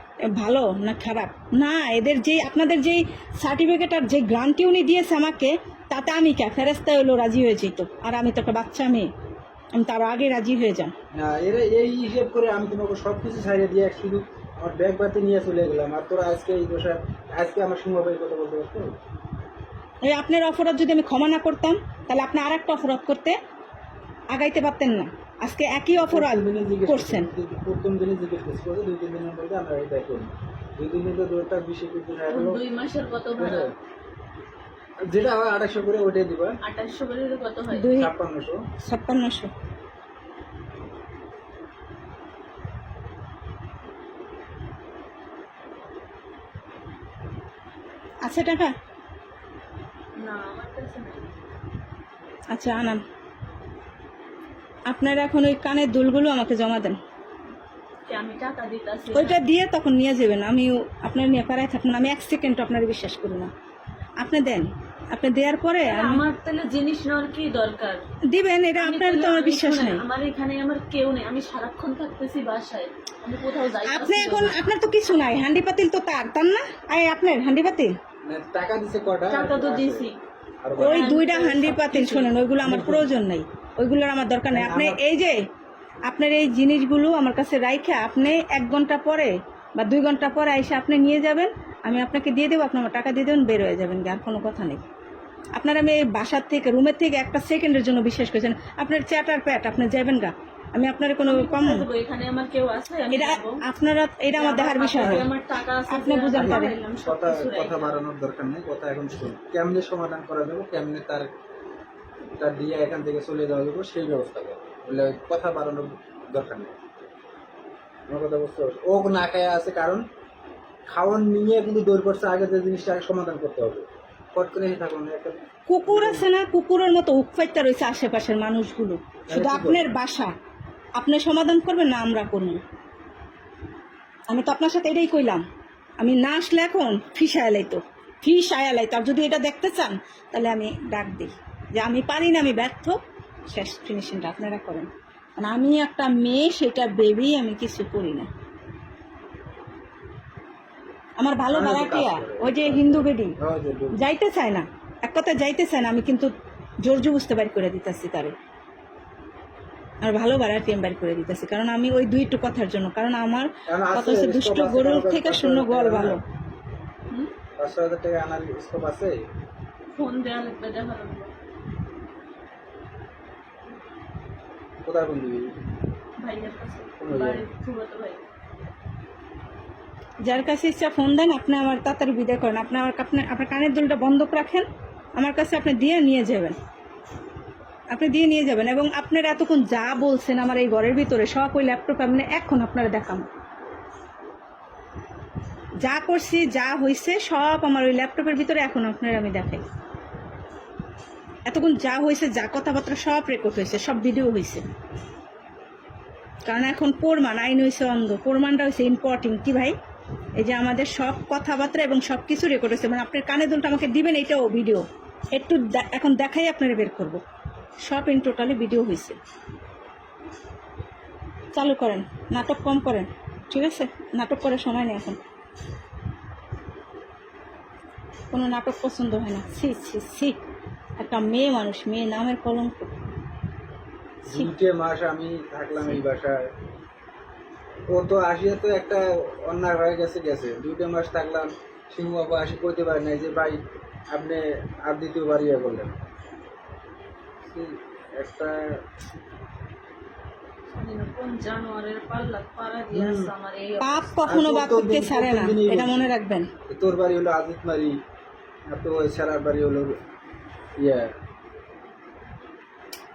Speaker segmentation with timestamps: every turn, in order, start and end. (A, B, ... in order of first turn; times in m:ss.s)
0:00.4-0:09.1 A
0:09.8-0:10.9 A
0:11.1-0:19.0 B
0:20.0-0:23.4 A
0:24.3-0:27.3 A
0:25.9-0:32.6 B
0:32.3-0:33.7 C
0:33.4-0:33.7 B
0:35.1-0:36.5 B
0:36.6-0:38.0 C
0:37.7-0:38.1 A
0:38.0-0:38.6 B
0:38.8-0:39.5 A
0:48.2-0:48.8 A
0:50.2-0:51.3 C
0:52.5-0:53.0 A
0:54.9-0:57.0 A
0:58.1-0:59.4 C
0:59.1-1:03.5 A
1:04.2-1:06.2 A
1:05.8-1:08.0 C
1:08.3-1:10.0 A
1:08.8-1:14.6 C
1:13.8-1:17.9 A
1:18.3-1:20.1 B
1:19.3-1:20.2 C
1:20.6-1:21.0 B
1:20.8-1:25.4 A
1:20.8-1:22.3 C
1:22.6-1:23.1 B
1:24.5-1:25.0 B
1:26.1-1:34.8 A
1:35.6-1:41.9 A
1:41.2-1:43.6 C
1:43.1-1:45.3 A
1:44.4-1:48.0 C
1:45.0-1:45.2 B
1:45.9-1:46.8 A
1:46.4-1:51.3 B
1:52.4-1:56.8 B
1:58.1-2:00.0 B
2:00.9-2:06.3 B
2:05.7-2:10.3 A
2:09.3-2:10.0 B
2:11.0-2:12.6 A
2:14.3-2:15.4 A
2:16.0-2:28.3 A
2:31.2-2:33.4 A
2:31.5-2:34.0 B
2:33.9-2:36.3 A
2:36.8-2:38.4 A
2:40.0-2:46.2 A
2:43.7-2:46.2 B
2:47.6-2:49.2 B
2:50.0-2:51.3 C
2:54.8-2:55.5 B
2:56.2-2:58.2 C
2:57.0-2:57.4 B
3:00.2-3:04.7 A
3:05.2-3:06.6 A
3:07.9-3:13.2 A
3:15.8-3:19.6 A
3:21.5-3:24.6 A
3:26.5-3:29.8 A
3:30.4-3:37.2 A
3:37.9-3:39.2 A
3:41.6-3:45.2 A
3:48.3-3:50.4 A
3:51.0-3:52.9 A
3:54.2-3:56.4 B
3:57.9-4:03.6 B
4:04.1-4:06.0 B
4:07.4-4:08.7 B
4:10.7-4:14.2 C
4:12.9-4:13.3 B
4:13.8-4:16.5 A
4:14.2-4:16.1 B
4:16.7-4:18.0 B
4:18.7-4:20.0 B
4:20.8-4:21.1 B